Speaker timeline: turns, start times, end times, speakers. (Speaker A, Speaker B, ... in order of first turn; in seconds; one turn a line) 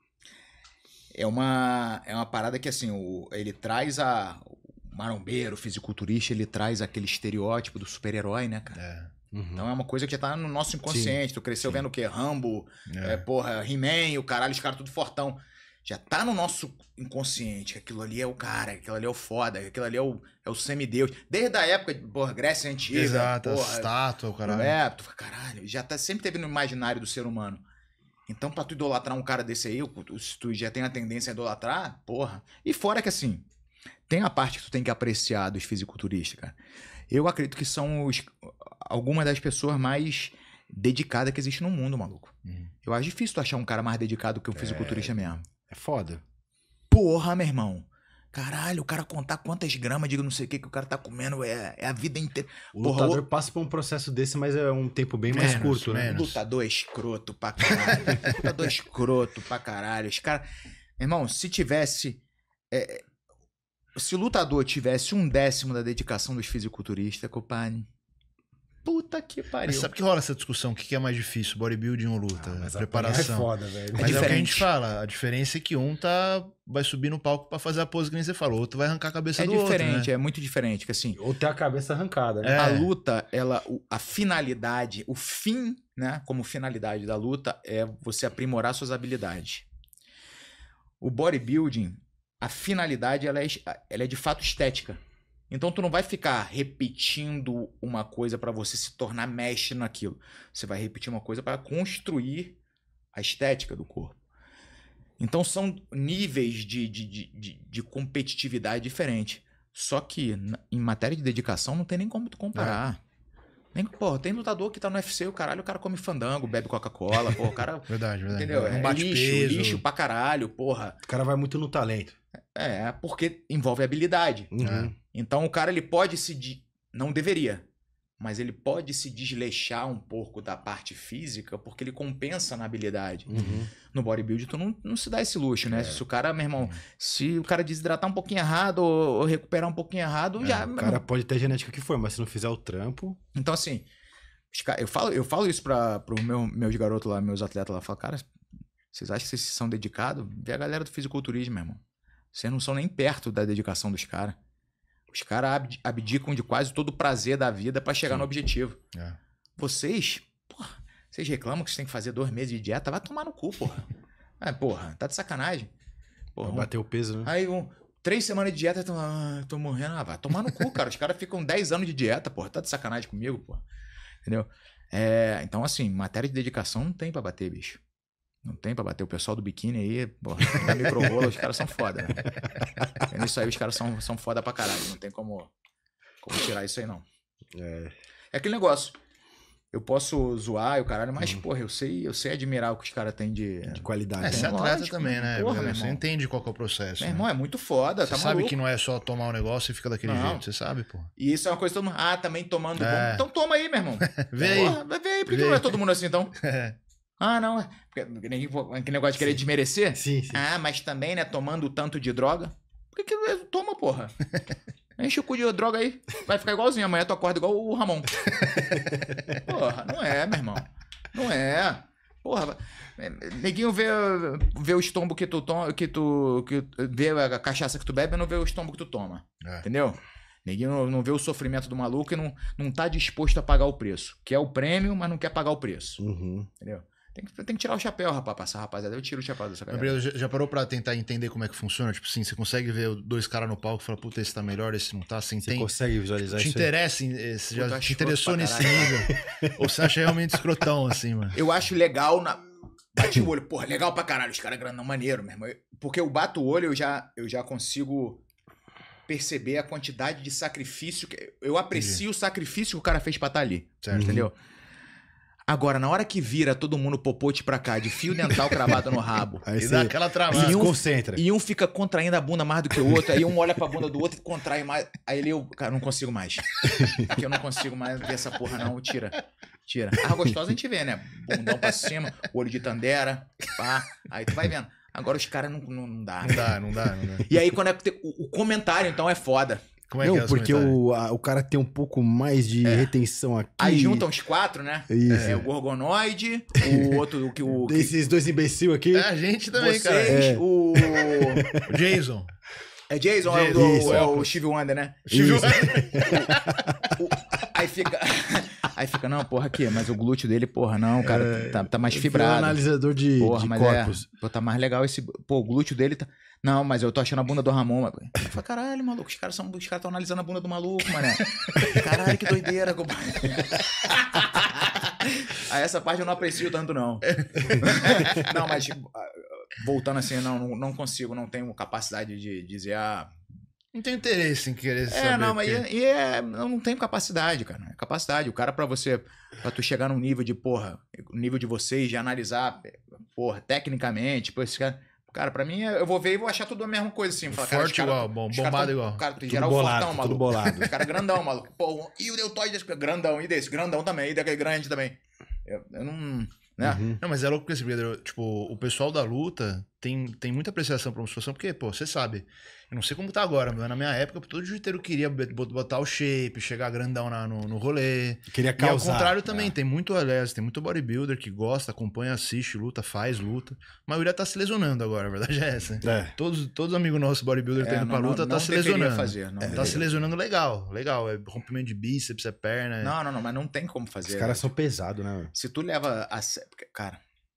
Speaker A: 1.1-8.8
Speaker B: 8.8-9.1
Speaker C: 9.3-9.6
Speaker A: 9.6-27.6
Speaker C: 10.9-11.8
Speaker B: 12.9-13.2
Speaker B: 22.9-24.8
Speaker A: 28.3-33.5
Speaker A: 34.1-36.6
Speaker A: 37.1-45.4
Speaker C: 44.5-46.2
Speaker A: 46.9-53.2
Speaker C: 52.8-56.1
Speaker B: 55.3-56.4
Speaker A: 55.3-60.4
Speaker A: 61.0-63.0
Speaker A: 64.0-67.9
Speaker A: 68.8-69.9
Speaker B: 69.7-80.1
Speaker C: 72.4-74.4
Speaker A: 74.0-74.7
Speaker A: 79.4-81.2
Speaker C: 81.2-82.6
Speaker B: 82.4-82.9
Speaker A: 82.6-89.7
Speaker A: 91.0-102.6
Speaker A: 103.1-104.2
Speaker A: 105.2-113.0
Speaker B: 112.5-112.8
Speaker A: 113.7-121.0
Speaker B: 117.9-119.8
Speaker C: 121.0-122.2
Speaker A: 122.5-124.5
Speaker C: 124.5-124.9
Speaker B: 124.6-124.9
Speaker A: 125.1-127.7
Speaker A: 128.2-141.0
Speaker C: 133.3-133.7
Speaker C: 135.7-136.0
Speaker B: 140.4-140.7
Speaker C: 140.7-143.2
Speaker A: 143.3-143.9
Speaker A: 144.5-148.3
Speaker A: 148.9-151.8
Speaker A: 152.3-154.4
Speaker A: 155.1-158.8
Speaker A: 159.6-163.9
Speaker A: 164.4-165.7
Speaker A: 166.3-166.7
Speaker C: 166.4-167.3
Speaker A: 167.2-173.6
Speaker A: 174.2-177.8
Speaker A: 178.4-182.3
Speaker A: 183.0-185.5
Speaker A: 186.2-187.1
Speaker C: 187.5-187.9
Speaker A: 188.3-188.9
Speaker A: 189.7-196.0
Speaker C: 193.7-194.6
Speaker B: 194.2-197.3
Speaker A: 197.0-198.6
Speaker B: 198.1-201.1
Speaker A: 200.0-200.4
Speaker A: 201.2-206.3
Speaker B: 202.8-203.3
Speaker B: 204.0-205.8
Speaker B: 206.4-206.8
Speaker A: 207.2-214.1
Speaker C: 209.9-210.4
Speaker A: 215.0-218.2
Speaker C: 218.7-219.0
Speaker A: 219.4-236.0
Speaker C: 236.0-236.5
Speaker A: 236.6-240.0
Speaker B: 239.7-245.7
Speaker C: 245.4-246.7
Speaker B: 246.3-251.4
Speaker A: 247.5-249.0
Speaker C: 249.1-249.8
Speaker A: 251.3-252.4
Speaker A: 252.9-258.2
Speaker A: 259.1-264.3
Speaker B: 261.7-262.0
Speaker B: 263.8-264.2
Speaker C: 263.9-264.3
Speaker A: 265.5-269.4
Speaker C: 269.4-271.2
Speaker B: 269.6-270.7
Speaker A: 270.3-286.6
Speaker C: 276.7-277.1
Speaker B: 286.2-287.2
Speaker A: 287.2-289.6
Speaker B: 289.9-290.8
Speaker C: 290.0-294.1
Speaker A: 292.6-292.9
Speaker A: 293.6-297.9
Speaker C: 294.9-295.4
Speaker B: 295.1-295.4
Speaker C: 296.6-299.1
Speaker B: 298.9-300.2
Speaker A: 299.5-301.4
Speaker C: 300.1-301.8
Speaker B: 301.6-302.3
Speaker A: 302.9-306.3
Speaker B: 303.2-304.1
Speaker C: 303.5-304.3
Speaker B: 305.1-306.8
Speaker C: 305.1-306.3
Speaker A: 306.9-312.6
Speaker C: 311.0-314.1
Speaker A: 313.2-333.1
Speaker B: 327.2-328.3
Speaker B: 333.7-335.6
Speaker A: 334.9-356.8
Speaker B: 347.3-349.0
Speaker C: 349.2-350.7
Speaker C: 356.6-357.0
Speaker B: 357.0-383.0
Speaker C: 368.3-369.5
Speaker C: 375.8-376.1
Speaker A: 377.6-379.9
Speaker C: 379.4-379.9
Speaker A: 382.8-384.5
Speaker C: 384.1-385.3
Speaker A: 385.3-387.0